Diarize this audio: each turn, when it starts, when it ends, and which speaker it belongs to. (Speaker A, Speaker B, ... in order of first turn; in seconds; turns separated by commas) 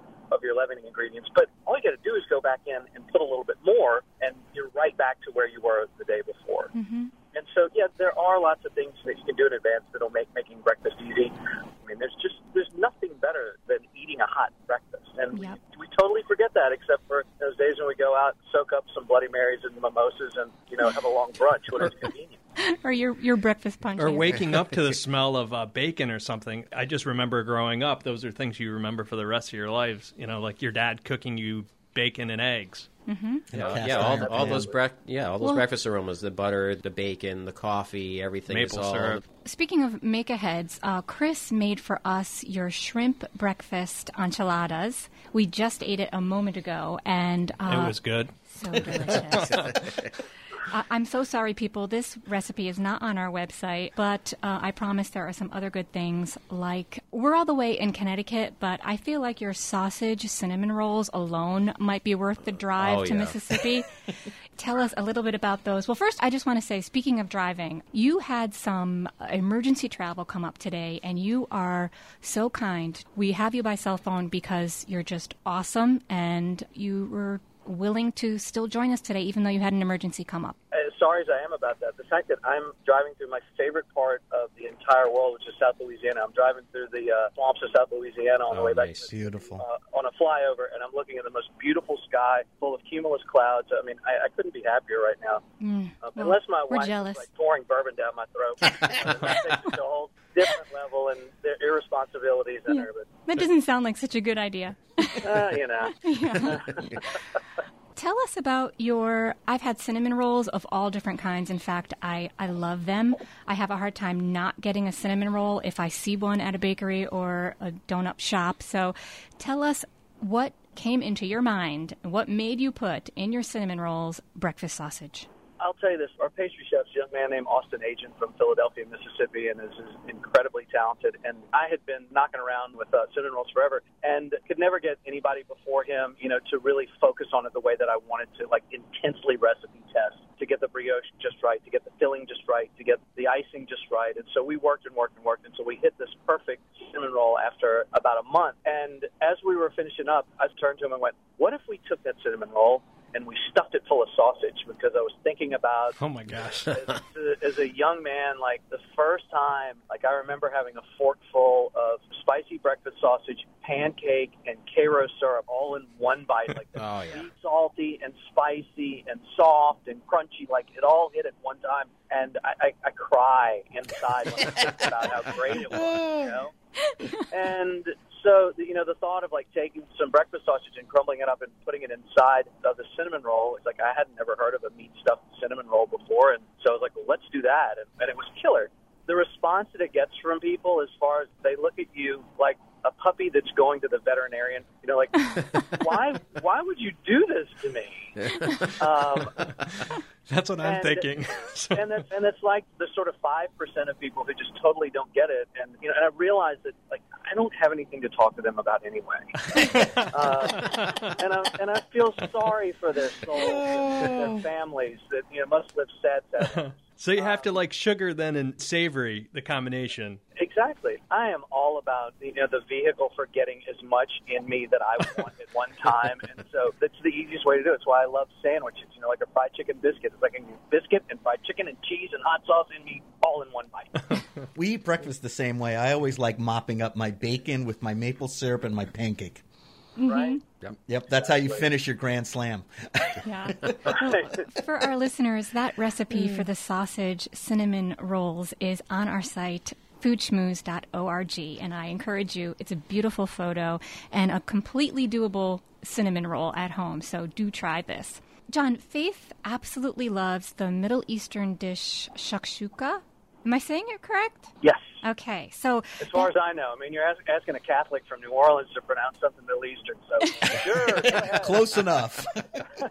Speaker A: 0.3-6.7, Speaker B: 6.7-7.1, Speaker A: 7.3-22.4, Speaker B: 15.3-15.6, Speaker B: 22.6-24.4, Speaker C: 24.0-32.9, Speaker B: 33.1-33.5, Speaker D: 33.5-34.7, Speaker C: 33.5-34.1, Speaker E: 33.6-39.2, Speaker A: 33.8-34.8, Speaker C: 38.5-39.2, Speaker B: 39.5-49.6, Speaker C: 47.7-49.7, Speaker D: 49.4-49.8, Speaker B: 50.7-63.9, Speaker E: 62.8-63.4, Speaker B: 64.6-80.6, Speaker A: 80.7-95.4, Speaker E: 88.5-89.1, Speaker D: 89.1-89.7, Speaker B: 95.6-97.2, Speaker A: 96.0-103.1, Speaker B: 102.7-105.4, Speaker A: 105.2-106.7, Speaker B: 106.0-107.1, Speaker B: 108.0-125.3, Speaker A: 125.6-156.0, Speaker C: 156.0-157.0, Speaker A: 156.7-176.5, Speaker E: 166.8-167.3, Speaker D: 175.7-176.3, Speaker A: 177.3-199.4, Speaker C: 200.3-202.0, Speaker A: 200.6-201.1, Speaker A: 201.7-209.3, Speaker C: 209.4-211.2, Speaker A: 210.1-217.5, Speaker D: 213.8-214.2, Speaker C: 216.4-220.2, Speaker A: 220.4-233.9, Speaker D: 234.6-239.4, Speaker B: 240.0-240.4, Speaker A: 240.0-240.4, Speaker D: 240.9-243.6, Speaker A: 241.1-241.7, Speaker B: 243.2-266.3, Speaker A: 244.0-244.3, Speaker A: 264.6-265.0, Speaker A: 266.0-271.7, Speaker D: 271.0-272.4